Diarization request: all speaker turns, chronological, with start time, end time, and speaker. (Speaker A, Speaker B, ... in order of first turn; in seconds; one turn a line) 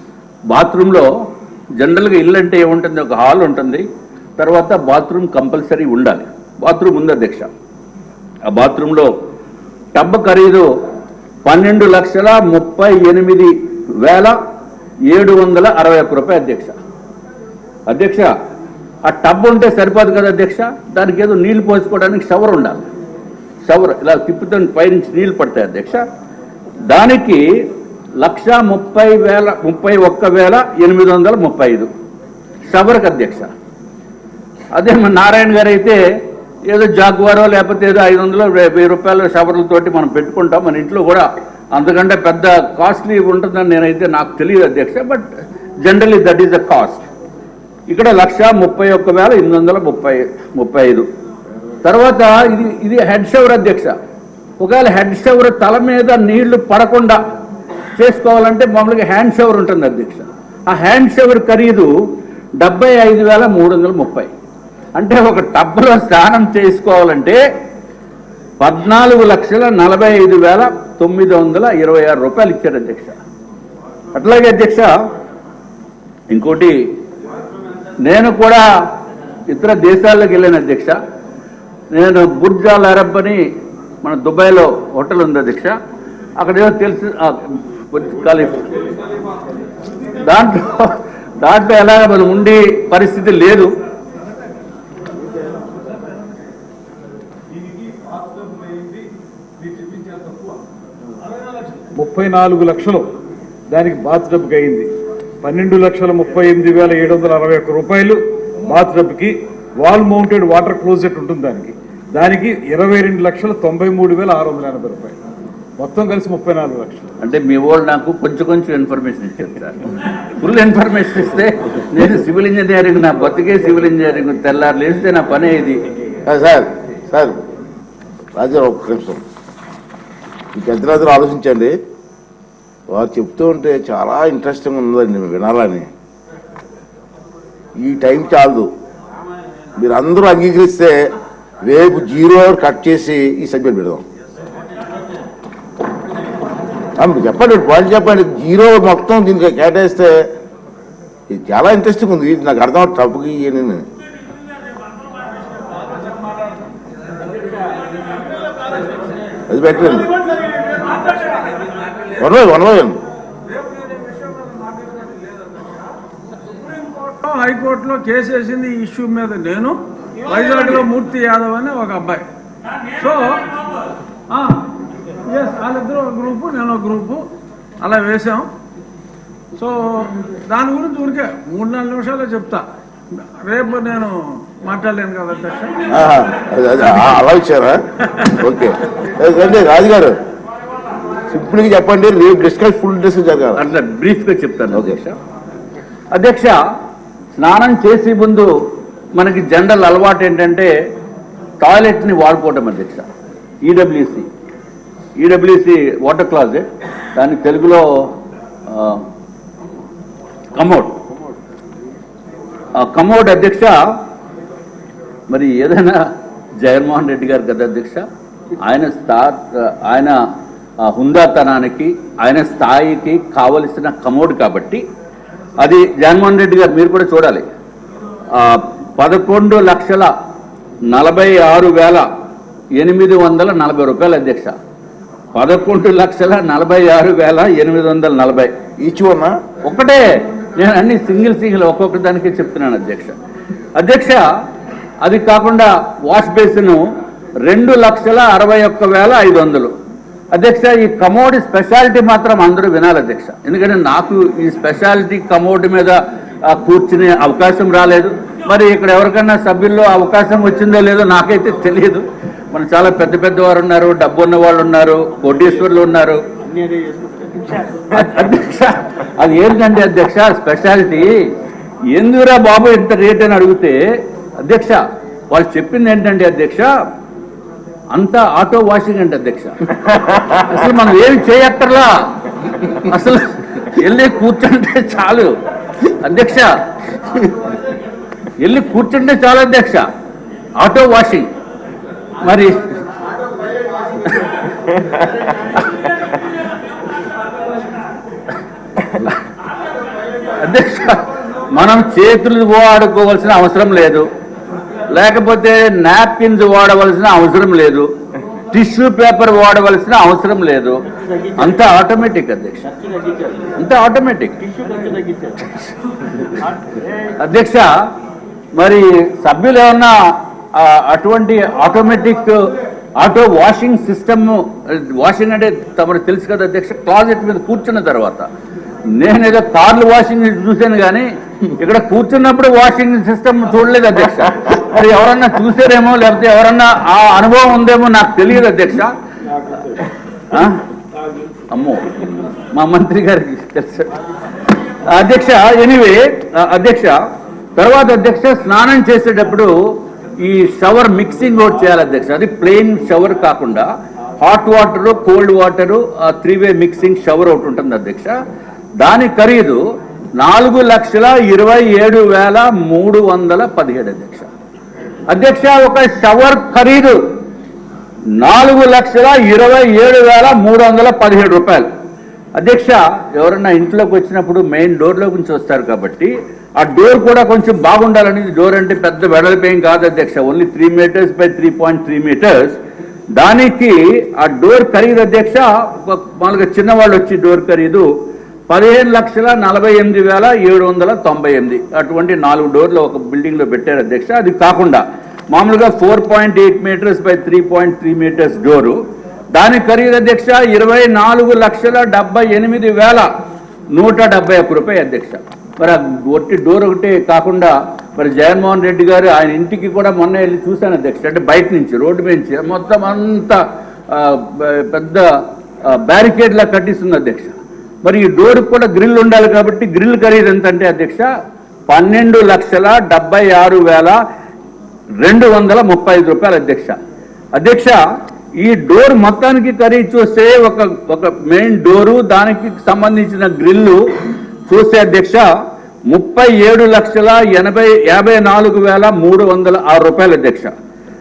Speaker A: 0.5-1.1
Speaker A: 1.8-3.8
Speaker A: 4.4-7.5
Speaker A: 8.5-9.1
Speaker A: 9.9-10.7
Speaker A: 11.4-14.3
Speaker A: 15.1-16.8
Speaker A: 17.9-18.3
Speaker A: 19.1-22.9
Speaker A: 23.7-26.0
Speaker A: 26.9-27.4
Speaker A: 28.2-31.9
Speaker A: 32.7-33.5
Speaker A: 34.7-36.0
Speaker A: 36.7-45.2
Speaker A: 45.8-47.1
Speaker A: 47.9-51.1
Speaker A: 51.8-54.0
Speaker A: 54.6-57.2
Speaker A: 58.0-61.9
Speaker A: 62.6-64.3
Speaker A: 65.0-67.4
Speaker A: 68.6-73.2
Speaker A: 74.2-74.9
Speaker A: 76.3-76.8
Speaker A: 78.0-78.7
Speaker A: 79.5-81.0
Speaker A: 81.9-83.4
Speaker A: 84.0-85.7
Speaker A: 86.4-88.9
Speaker A: 90.2-93.7
Speaker B: 98.1-99.0
Speaker B: 99.6-100.6
Speaker B: 102.0-103.1
Speaker B: 103.7-104.9
Speaker B: 105.4-115.2
Speaker B: 115.8-117.1
Speaker A: 117.2-125.8
Speaker C: 126.3-127.4
Speaker C: 128.3-129.2
Speaker C: 130.5-131.8
Speaker C: 132.9-135.9
Speaker C: 137.8-138.7
Speaker C: 139.8-141.1
Speaker C: 141.6-144.0
Speaker C: 147.0-150.2
Speaker C: 151.3-153.8
Speaker C: 159.5-160.2
Speaker C: 162.1-163.0
Speaker D: 166.9-172.3
Speaker D: 172.9-173.5
Speaker D: 174.3-174.7
Speaker D: 175.2-177.3
Speaker D: 177.8-178.5
Speaker D: 179.5-182.7
Speaker D: 183.2-185.8
Speaker C: 185.9-190.1
Speaker C: 191.3-193.6
Speaker A: 193.6-195.2
Speaker C: 194.7-195.0
Speaker A: 196.1-196.6
Speaker A: 197.3-198.5
Speaker A: 199.2-200.7
Speaker A: 201.6-203.1
Speaker A: 203.6-204.3
Speaker A: 205.2-207.8
Speaker A: 208.7-209.0
Speaker A: 210.5-211.0
Speaker A: 212.8-213.8
Speaker A: 215.3-216.0
Speaker A: 216.6-218.0
Speaker A: 218.6-220.2
Speaker A: 220.8-224.8
Speaker A: 225.6-227.4
Speaker A: 228.3-230.1
Speaker A: 230.9-232.0
Speaker A: 232.8-234.5
Speaker A: 235.3-238.5
Speaker C: 238.8-239.3
Speaker A: 239.6-243.1
Speaker A: 243.8-244.2
Speaker A: 245.0-246.8
Speaker A: 247.4-249.7
Speaker A: 250.3-266.2
Speaker D: 266.5-267.6
Speaker A: 267.9-271.2
Speaker A: 271.9-273.8
Speaker A: 274.4-276.7
Speaker A: 277.9-285.4
Speaker A: 285.9-286.6
Speaker A: 288.4-289.9
Speaker A: 290.6-291.3
Speaker A: 292.2-292.6
Speaker A: 295.6-295.9
Speaker A: 300.4-304.1
Speaker A: 304.9-307.9
Speaker A: 308.5-310.8
Speaker A: 311.4-312.7
Speaker D: 312.8-313.4
Speaker A: 313.6-314.4
Speaker D: 314.5-315.4
Speaker A: 317.2-317.7
Speaker A: 318.6-320.0
Speaker A: 320.6-322.4
Speaker A: 323.0-328.2
Speaker A: 328.9-338.9
Speaker A: 339.7-340.6
Speaker A: 341.5-343.9
Speaker A: 344.9-347.0
Speaker A: 347.6-349.5
Speaker A: 350.2-358.1
Speaker A: 358.8-359.6
Speaker A: 360.2-364.3
Speaker A: 365.1-367.0
Speaker A: 368.2-371.7
Speaker A: 372.4-382.6
Speaker A: 383.2-387.9
Speaker A: 388.5-398.8
Speaker A: 399.3-403.1
Speaker A: 403.7-415.1
Speaker A: 415.7-421.1
Speaker A: 421.7-424.0
Speaker A: 425.0-426.8
Speaker A: 427.4-427.8
Speaker A: 428.4-433.8
Speaker A: 434.5-435.2
Speaker A: 435.9-440.5